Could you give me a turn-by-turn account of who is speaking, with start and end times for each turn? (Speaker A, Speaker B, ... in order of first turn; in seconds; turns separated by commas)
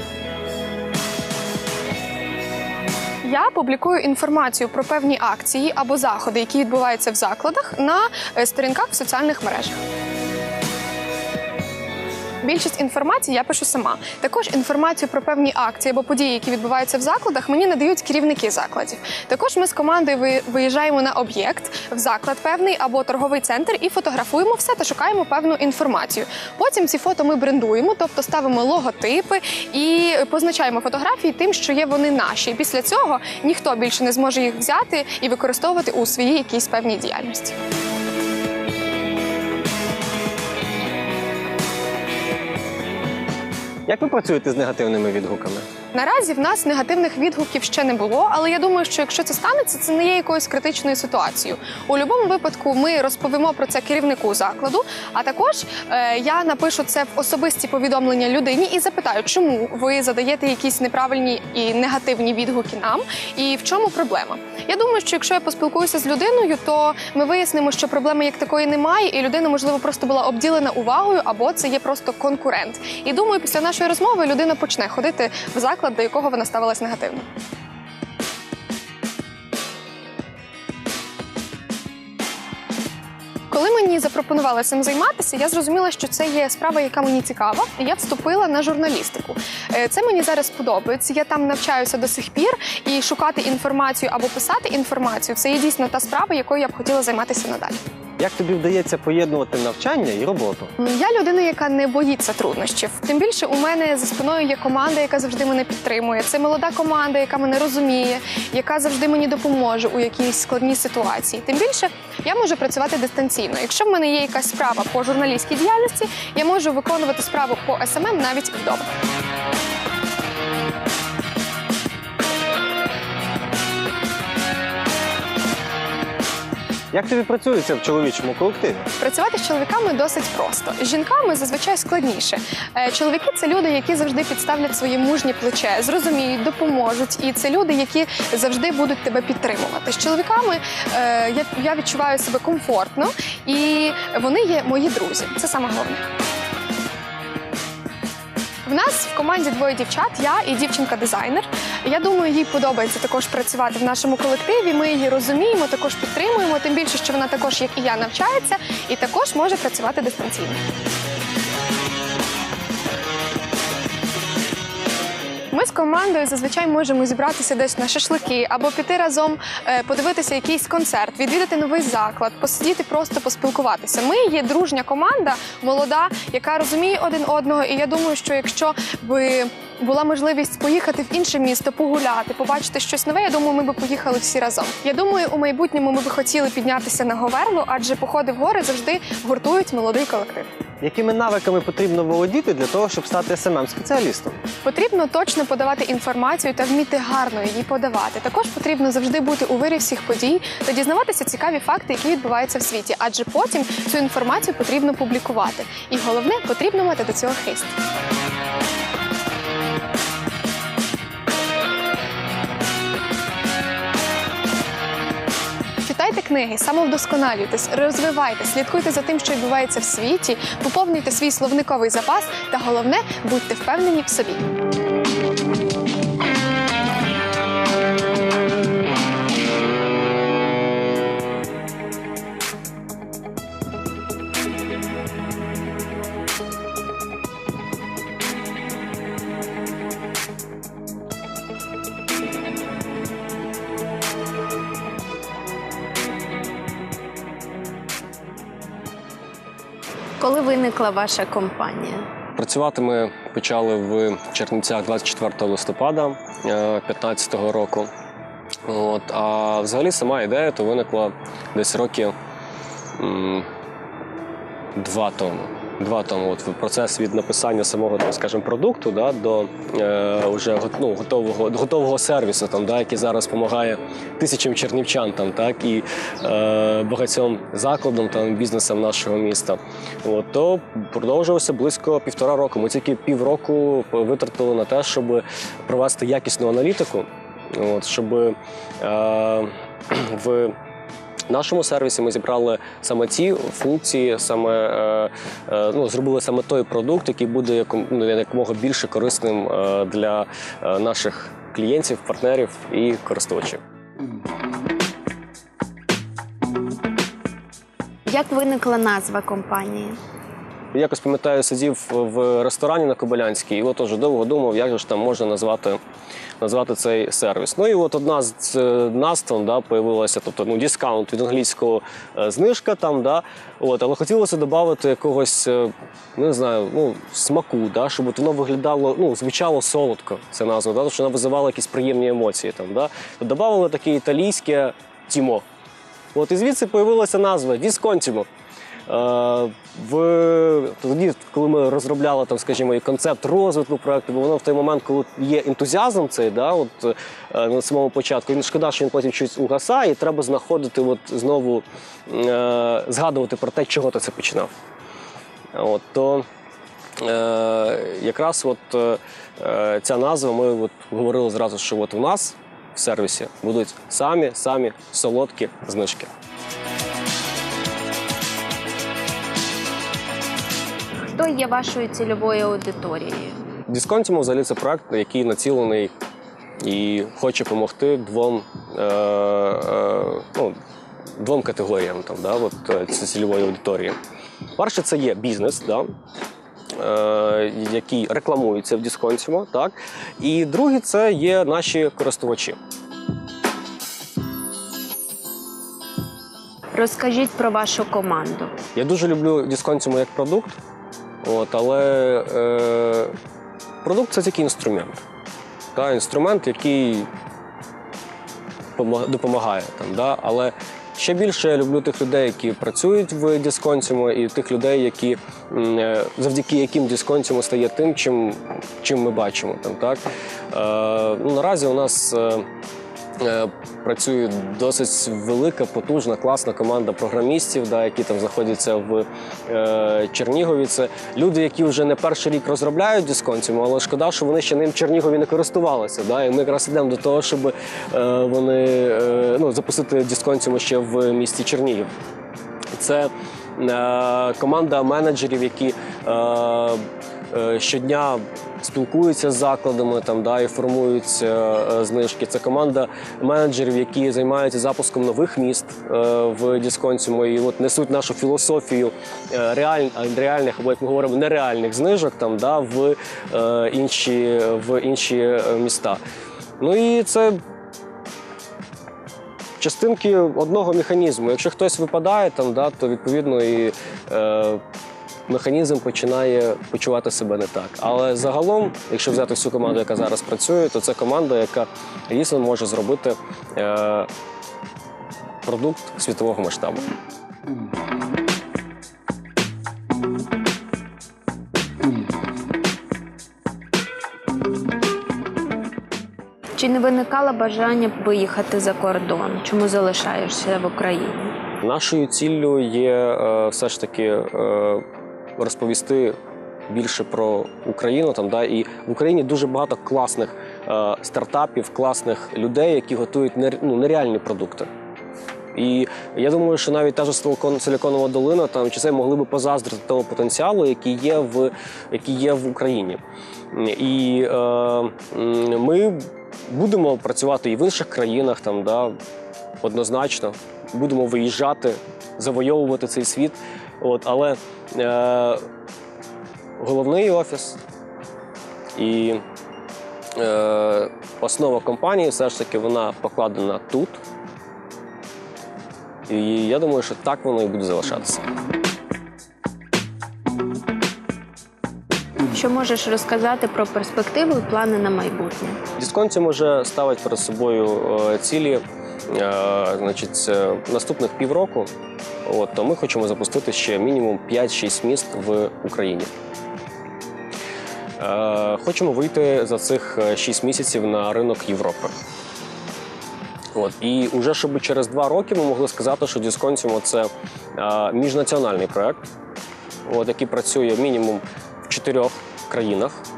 Speaker A: 3.2-9.8, Speaker A: 12.4-37.5, Speaker B: 43.9-45.6, Speaker A: 45.9-77.2, Speaker A: 83.5-97.8, Speaker B: 98.2-100.7, Speaker A: 100.8-118.9, Speaker B: 126.9-128.8, Speaker A: 129.0-146.1, Speaker A: 148.7-160.6, Speaker A: 165.5-190.5, Speaker B: 190.8-194.4, Speaker A: 194.6-207.7, Speaker A: 215.8-224.4, Speaker C: 250.2-252.1, Speaker D: 252.3-257.9, Speaker D: 258.6-262.1, Speaker D: 263.0-263.5, Speaker D: 264.8-290.5, Speaker D: 291.3-303.6, Speaker C: 308.1-310.0, Speaker D: 310.7-315.8, Speaker D: 316.4-335.4, Speaker D: 336.1-338.3, Speaker D: 338.9-354.5, Speaker D: 355.5-356.2, Speaker D: 357.0-366.1, Speaker C: 371.1-373.4, Speaker D: 373.7-375.9, Speaker D: 376.6-380.6, Speaker D: 381.2-384.0, Speaker D: 384.6-385.9, Speaker D: 386.8-392.6, Speaker C: 396.7-398.6, Speaker D: 398.8-400.6, Speaker D: 401.2-403.1, Speaker D: 403.8-405.0, Speaker D: 405.7-407.1, Speaker D: 408.8-422.4, Speaker D: 423.2-441.9, Speaker D: 442.7-466.0, Speaker D: 466.6-467.4, Speaker D: 469.6-474.6, Speaker D: 475.3-484.1, Speaker D: 485.4-486.9, Speaker C: 496.6-501.4, Speaker D: 501.6-504.8, Speaker D: 505.4-506.1, Speaker D: 506.7-514.7, Speaker D: 515.5-523.0, Speaker D: 523.5-528.9, Speaker D: 529.6-535.4, Speaker D: 536.6-537.6, Speaker D: 538.8-539.2, Speaker D: 540.1-544.0, Speaker D: 546.1-548.2, Speaker C: 552.3-555.6, Speaker D: 555.8-561.7, Speaker D: 562.2-566.1, Speaker D: 568.0-571.9, Speaker D: 573.5-579.0, Speaker D: 579.9-583.0